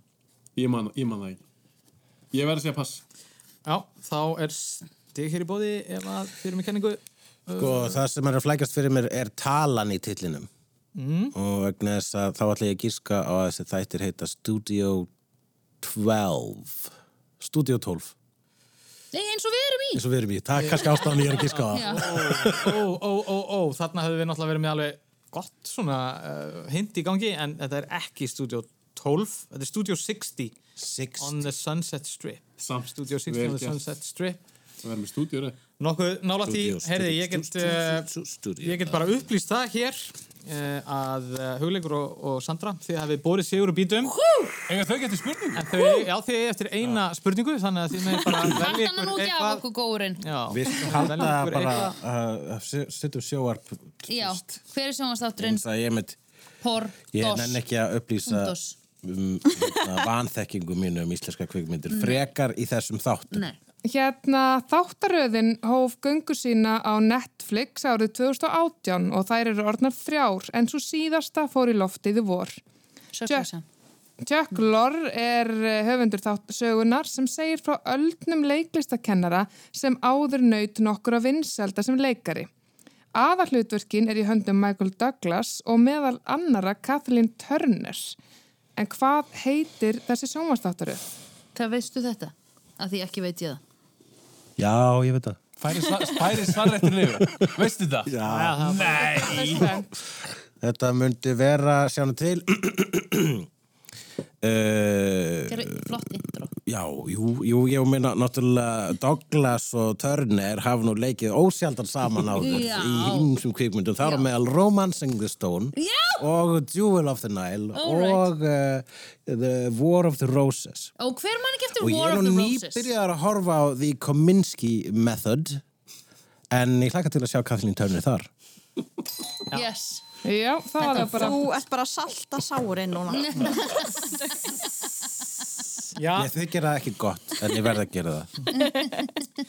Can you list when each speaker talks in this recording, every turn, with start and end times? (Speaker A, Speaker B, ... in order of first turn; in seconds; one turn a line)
Speaker A: 0.6-1.4
Speaker A: 2.3-3.0
Speaker B: 3.6-8.0
Speaker C: 7.6-10.5
Speaker B: 10.9-11.3
Speaker C: 11.3-15.1
Speaker C: 15.8-18.1
Speaker D: 19.1-20.0
Speaker C: 19.9-22.8
Speaker B: 20.6-30.6
Speaker D: 21.7-22.1
Speaker C: 30.8-31.4
Speaker B: 31.2-34.4
Speaker A: 32.6-33.8
Speaker A: 34.8-35.6
Speaker B: 35.8-38.1
Speaker C: 36.5-39.1
Speaker B: 38.6-44.1
Speaker D: 44.0-44.7
Speaker A: 44.7-45.6
Speaker B: 45.6-49.6
Speaker D: 45.8-46.1
Speaker D: 48.4-51.0
Speaker B: 50.2-51.9
Speaker C: 50.5-54.6
Speaker D: 54.1-55.6
Speaker C: 55.4-56.2
Speaker D: 56.6-57.6
Speaker C: 57.1-63.4
Speaker D: 58.3-58.8
Speaker D: 61.9-62.2
Speaker D: 63.3-63.6
Speaker E: 63.9-72.6
Speaker D: 73.1-73.7
Speaker E: 74.2-82.5
Speaker E: 83.1-88.2
Speaker E: 88.8-91.0
Speaker D: 91.5-93.6
Speaker C: 94.6-95.4
Speaker A: 95.6-99.7
Speaker C: 97.0-97.5
Speaker C: 98.1-98.6
Speaker B: 98.2-99.7
Speaker E: 99.0-99.8
Speaker C: 100.6-103.5
Speaker C: 104.4-105.8
Speaker D: 105.5-106.5
Speaker C: 106.6-120.9
Speaker D: 112.2-113.3
Speaker D: 115.8-116.2
Speaker D: 117.8-118.3
Speaker D: 121.0-122.9
Speaker C: 121.8-125.6
Speaker C: 126.5-128.3
Speaker D: 129.5-130.0
Speaker E: 130.2-131.4
Speaker F: 130.9-134.7
Speaker D: 133.1-133.9
Speaker B: 136.0-136.3
Speaker C: 136.1-138.3
Speaker F: 138.6-139.1